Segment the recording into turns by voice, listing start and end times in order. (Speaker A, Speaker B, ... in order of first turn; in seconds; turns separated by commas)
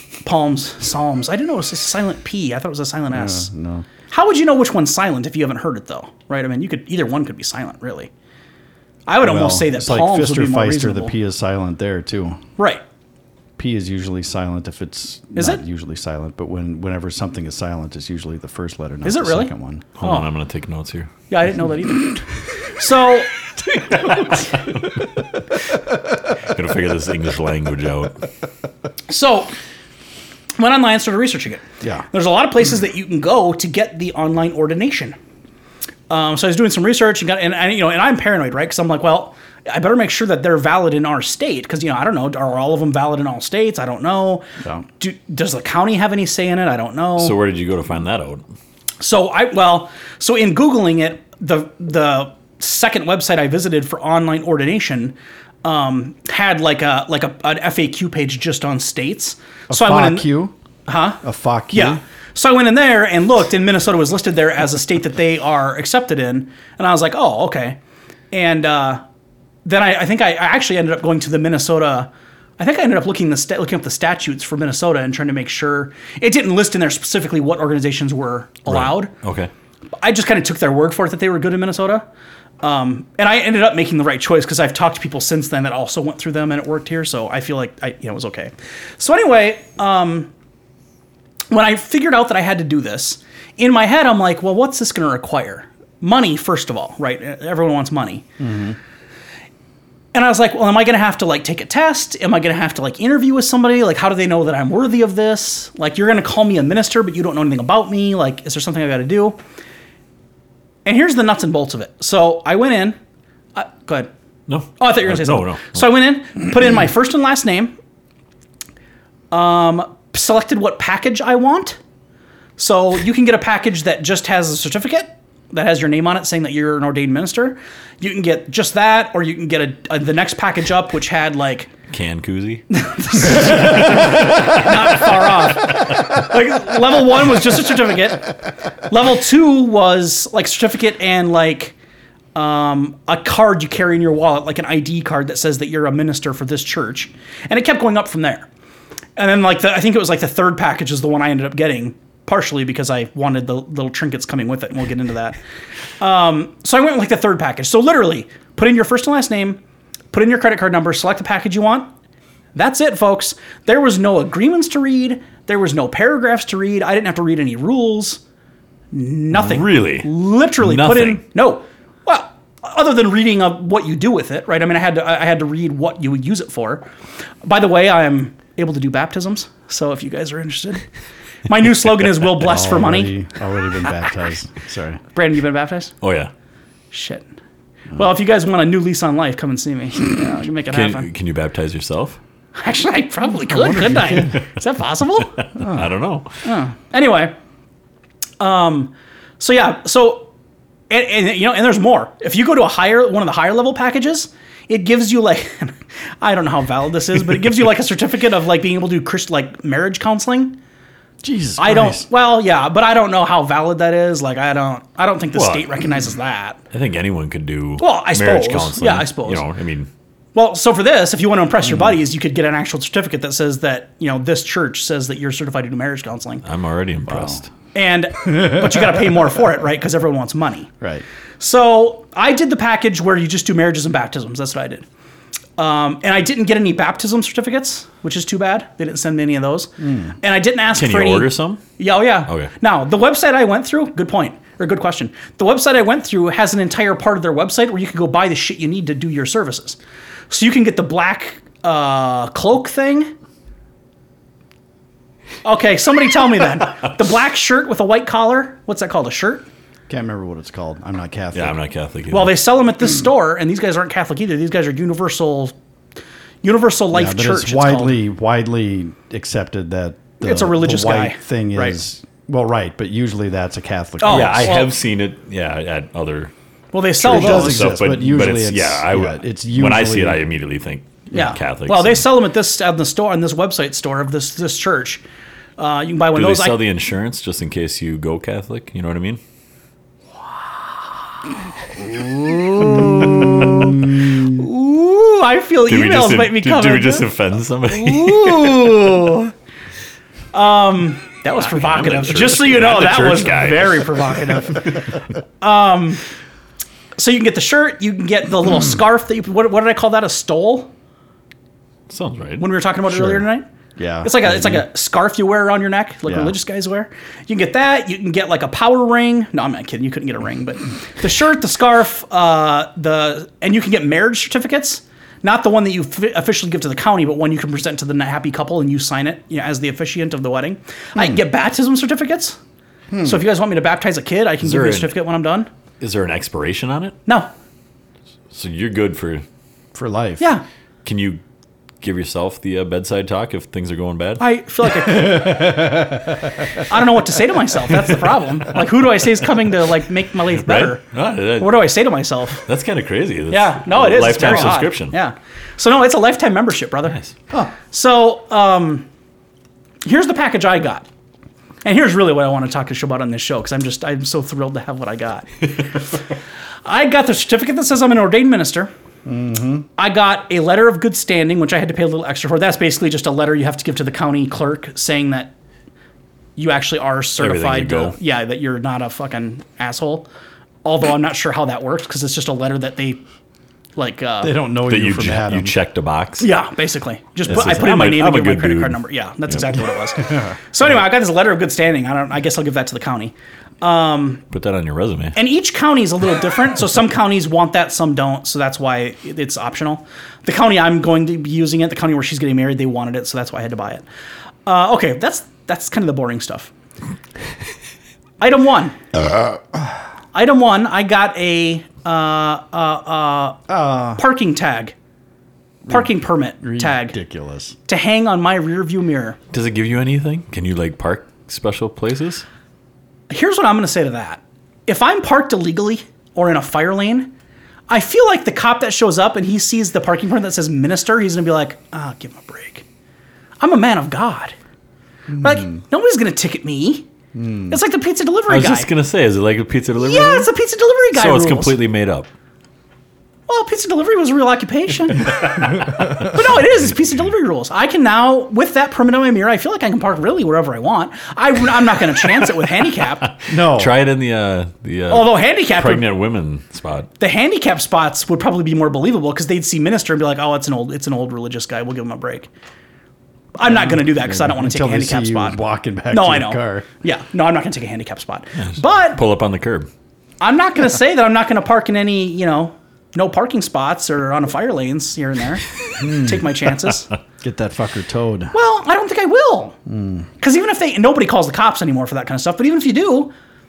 Speaker A: 0.2-3.5, Speaker B: 3.1-3.9, Speaker A: 4.1-8.1, Speaker A: 9.1-11.1, Speaker B: 9.2-12.4, Speaker A: 12.6-12.8, Speaker B: 13.6-19.9, Speaker A: 15.4-15.6, Speaker A: 19.1-20.3, Speaker C: 20.0-21.1, Speaker A: 21.3-23.3, Speaker C: 26.4-28.3, Speaker A: 29.1-29.5, Speaker A: 30.6-35.2, Speaker A: 36.1-44.5, Speaker A: 45.0-47.4, Speaker C: 47.2-48.4, Speaker A: 49.0-60.3, Speaker B: 59.7-60.5, Speaker A: 60.9-67.8, Speaker B: 61.2-62.0, Speaker A: 68.3-69.0, Speaker A: 69.7-79.1, Speaker C: 78.7-79.5, Speaker A: 80.0-82.0, Speaker A: 82.6-90.3, Speaker A: 91.5-98.3, Speaker B: 98.4-98.8, Speaker A: 100.1-109.4, Speaker A: 110.8-113.0, Speaker A: 113.5-114.1, Speaker C: 114.5-115.8, Speaker A: 114.8-117.8, Speaker A: 119.3-121.8, Speaker A: 122.6-131.7, Speaker C: 131.9-134.6, Speaker A: 132.7-141.8, Speaker A: 142.3-148.5, Speaker A: 149.2-155.4, Speaker A: 156.0-159.6, Speaker A: 160.1-161.9, Speaker A: 162.6-168.2, Speaker A: 168.9-176.9, Speaker C: 169.3-171.2, Speaker A: 177.4-180.8, Speaker A: 181.5-183.1, Speaker B: 182.4-185.0, Speaker A: 185.2-185.9, Speaker C: 186.0-186.3, Speaker A: 186.9-187.3, Speaker A: 187.9-191.1, Speaker C: 190.7-192.2, Speaker A: 192.6-195.4, Speaker B: 193.5-194.3, Speaker C: 195.4-196.3, Speaker A: 196.4-197.3, Speaker A: 198.4-200.3, Speaker A: 200.9-210.6, Speaker B: 211.2-212.1, Speaker A: 211.6-216.6, Speaker C: 215.3-215.8, Speaker C: 216.7-219.9, Speaker A: 217.8-219.5, Speaker A: 220.3-226.4, Speaker C: 226.4-227.5, Speaker B: 227.1-227.4, Speaker A: 227.7-230.7, Speaker A: 231.4-234.8, Speaker A: 235.6-249.8, Speaker B: 239.8-240.1, Speaker C: 240.8-241.6, Speaker A: 250.3-253.1, Speaker A: 255.4-259.5, Speaker B: 259.9-261.6, Speaker C: 261.3-262.4, Speaker A: 262.1-265.6, Speaker A: 266.4-268.0, Speaker B: 266.9-274.6, Speaker A: 270.2-271.8, Speaker A: 274.0-274.7, Speaker C: 274.1-276.3, Speaker A: 276.7-277.7, Speaker C: 277.0-282.1, Speaker B: 277.0-280.2, Speaker A: 281.1-285.0, Speaker A: 285.6-286.6, Speaker C: 286.1-289.2, Speaker A: 291.8-297.1, Speaker C: 295.7-298.7, Speaker A: 297.7-299.3, Speaker A: 300.3-304.9, Speaker C: 301.4-304.0, Speaker A: 305.4-306.0, Speaker A: 307.0-310.7, Speaker C: 311.9-312.5, Speaker A: 312.4-313.5, Speaker B: 312.9-314.7, Speaker A: 314.0-332.4, Speaker B: 316.1-316.3, Speaker B: 332.9-333.2, Speaker A: 333.0-335.5, Speaker C: 334.4-335.0, Speaker C: 335.8-337.0, Speaker A: 337.1-337.3, Speaker C: 338.3-339.2, Speaker B: 339.8-340.3, Speaker A: 340.2-340.4, Speaker C: 340.9-341.2, Speaker C: 341.8-344.2, Speaker A: 344.2-345.8, Speaker B: 344.9-346.2, Speaker A: 346.6-350.9, Speaker C: 350.3-351.6, Speaker A: 351.4-352.5, Speaker C: 352.4-355.0, Speaker A: 353.3-358.9, Speaker A: 359.8-360.9, Speaker A: 361.6-365.7, Speaker A: 366.6-368.7, Speaker B: 369.1-369.7, Speaker A: 369.8-375.3, Speaker A: 376.4-380.1, Speaker C: 377.2-378.0, Speaker A: 380.6-383.0, Speaker A: 383.8-384.4, Speaker B: 384.2-385.6, Speaker C: 384.7-386.3, Speaker A: 386.2-394.2, Speaker C: 387.3-389.4, Speaker C: 394.3-395.2, Speaker A: 395.1-403.9, Speaker A: 404.5-406.5, Speaker A: 408.2-408.8, Speaker B: 409.1-409.7, Speaker A: 410.1-414.7, Speaker B: 413.5-414.0, Speaker A: 415.7-417.0, Speaker B: 416.4-417.6, Speaker A: 417.7-419.2, Speaker C: 419.3-422.2, Speaker A: 423.1-427.1, Speaker A: 427.7-432.6, Speaker A: 433.4-434.4, Speaker A: 435.2-436.9, Speaker B: 437.1-437.5, Speaker A: 437.5-438.7, Speaker C: 438.3-440.3, Speaker A: 439.8-441.6, Speaker C: 440.9-442.1, Speaker A: 443.3-453.1, Speaker C: 453.1-456.9, Speaker B: 453.3-453.8, Speaker A: 454.9-455.9, Speaker A: 457.0-462.3, Speaker A: 463.4-465.4, Speaker B: 463.4-466.7, Speaker A: 465.9-469.0, Speaker C: 468.4-469.7, Speaker A: 470.2-476.9, Speaker B: 475.8-476.3, Speaker B: 477.2-478.3, Speaker A: 478.3-479.6, Speaker B: 479.7-480.1, Speaker A: 480.2-483.1